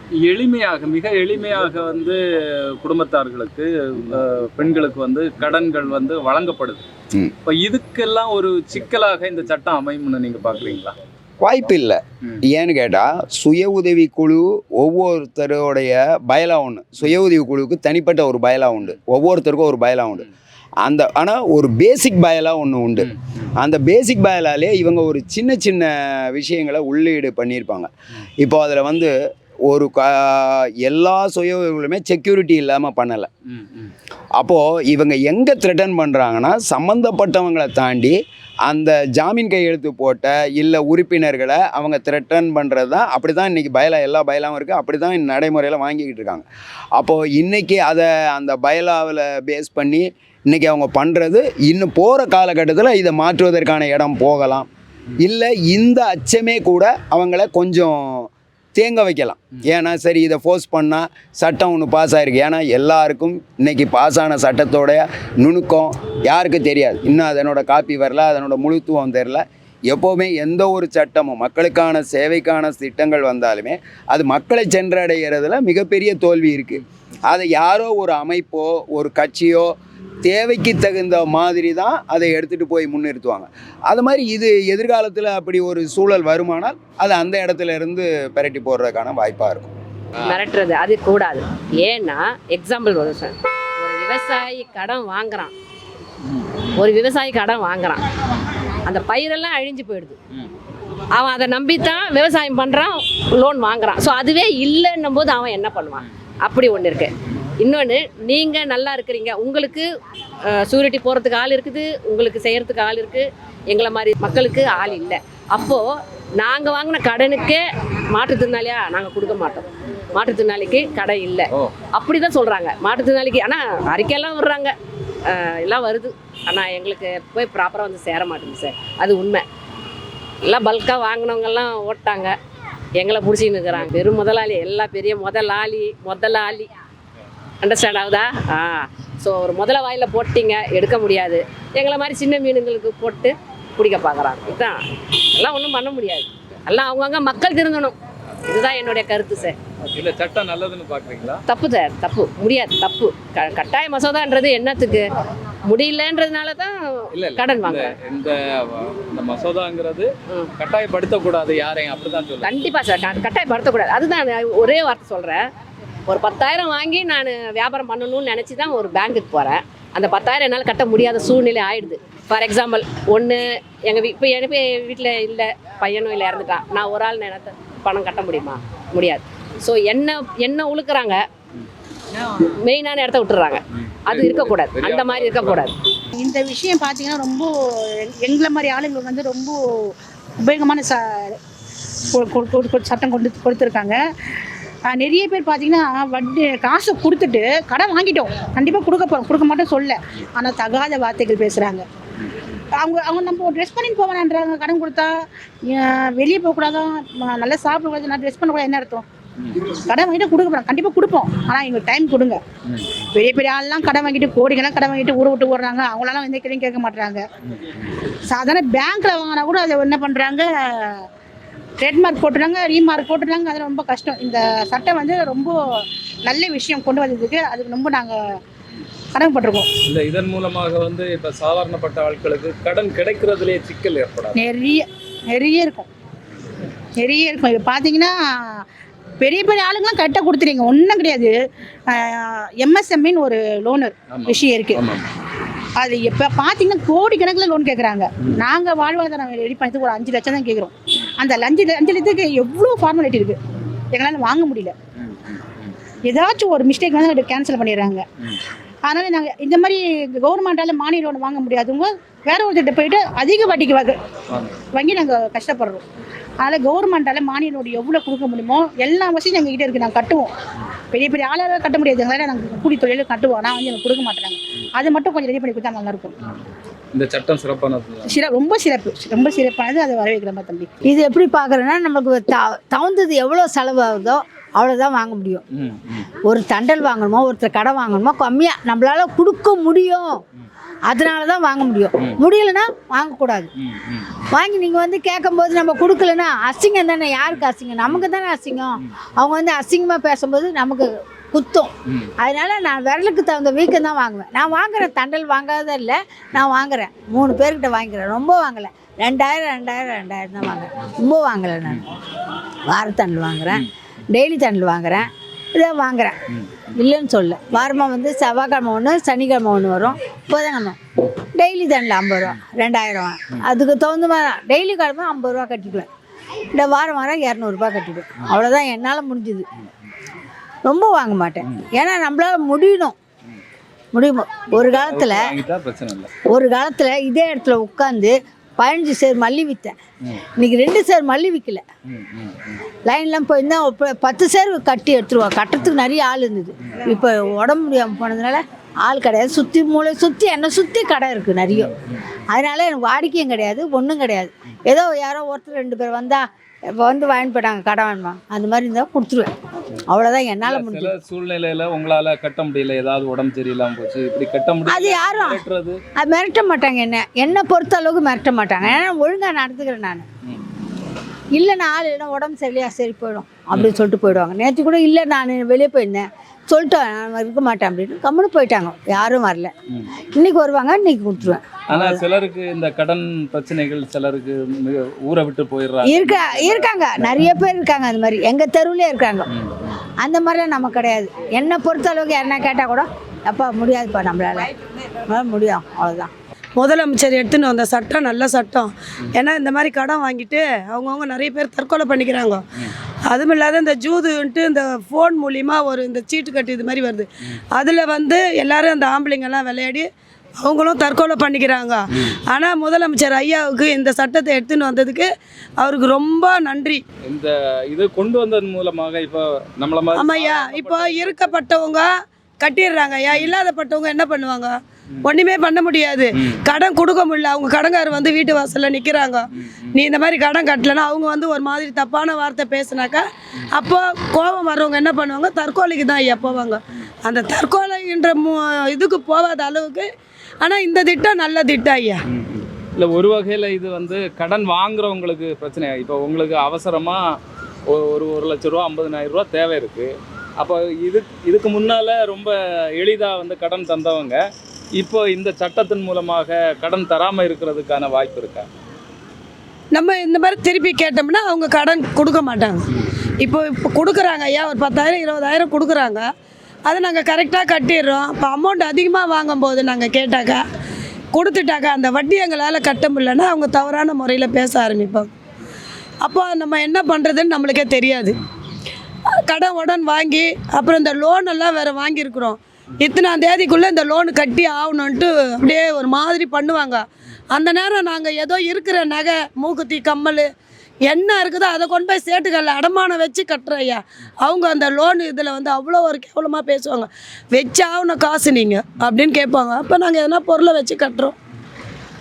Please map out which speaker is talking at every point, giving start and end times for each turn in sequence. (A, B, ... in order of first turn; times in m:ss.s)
0:00.2-0:02.2 A
0:02.8-0:06.8 A
0:07.4-0:11.0 A
0:11.4-0:20.3 B
0:20.8-0:29.1 B
0:29.7-0:33.3 B
0:33.5-0:33.9 A
0:34.4-0:54.7 B
0:55.2-1:29.7 B
1:30.2-1:30.4 A
1:30.2-1:35.5 C
1:36.3-1:36.6 A
1:36.8-1:38.0 C
1:38.9-1:40.2 C
1:41.1-1:49.9 C
1:50.5-2:04.7 C
2:05.3-2:09.4 C
2:10.4-2:12.4 C
2:13.0-2:16.7 C
2:17.6-2:28.0 C
2:28.5-2:29.6 C
2:29.4-2:31.4 A
2:31.5-2:35.1 C
2:35.6-2:37.9 C
2:37.1-2:42.6 A
2:42.4-2:45.5 C
2:46.1-3:01.2 C
3:02.5-3:05.8 C
3:03.8-3:05.7 A
3:06.2-3:11.4 D
3:12.1-3:14.0 D
3:14.9-3:21.8 D
3:22.8-3:25.1 D
3:25.7-3:29.0 D
3:29.4-3:29.7 A
3:29.9-3:32.4 D
3:32.7-3:33.0 A
3:33.2-3:37.2 D
3:37.5-3:37.9 A
3:38.3-3:41.0 D
3:41.8-3:45.6 D
3:46.2-3:48.2 D
3:49.2-3:49.7 D
3:49.9-3:54.4 A
3:54.4-3:55.9 D
3:57.0-3:58.6 D
3:59.2-4:01.3 D
4:01.9-4:04.7 D
4:04.1-4:05.1 A
4:05.8-4:13.4 D
4:13.9-4:14.7 D
4:15.0-4:15.8 A
4:16.1-4:18.0 D
4:18.9-4:23.9 D
4:24.3-4:24.6 A
4:24.7-4:25.8 D
4:26.4-4:30.3 D
4:30.9-4:36.1 D
4:36.9-4:38.2 A
4:38.1-4:40.7 D
4:40.8-4:45.4 E
4:45.5-4:46.1 A
4:46.2-4:50.2 E
4:50.9-4:53.5 E
4:53.6-4:54.2 A
4:54.3-5:11.8 E
5:12.7-5:16.2 E
5:16.8-5:25.9 E
5:26.5-5:29.4 E
5:30.6-5:33.0 E
5:33.9-5:35.3 E
5:34.5-5:36.1 A
5:36.3-5:39.8 E
5:40.4-5:41.6 E
5:41.9-5:42.6 A
5:42.8-5:51.7 E
5:52.3-5:59.3 E
5:59.9-6:00.9 E
6:00.4-6:05.8 A
6:04.6-6:05.4 E
6:06.0-6:10.0 E
6:11.4-6:19.5 E
6:13.5-6:13.8 A
6:20.1-6:22.1 E
6:21.2-6:27.2 A
6:25.8-6:29.3 E
6:29.3-6:29.8 A
6:30.0-6:34.5 E
6:35.1-6:36.1 E
6:36.6-6:42.4 F
6:43.1-6:56.8 F
6:57.1-7:01.3 A
7:00.0-7:22.0 F
7:03.1-7:03.4 A
7:09.4-7:09.8 A
7:22.1-7:27.2 A
7:27.7-7:34.2 A
7:34.8-7:38.5 A
7:39.7-7:42.6 F
7:43.2-7:46.1 F
7:46.6-7:50.4 F
7:51.1-7:55.1 F
7:56.0-7:58.2 F
7:59.1-8:10.3 F
8:10.8-8:21.1 F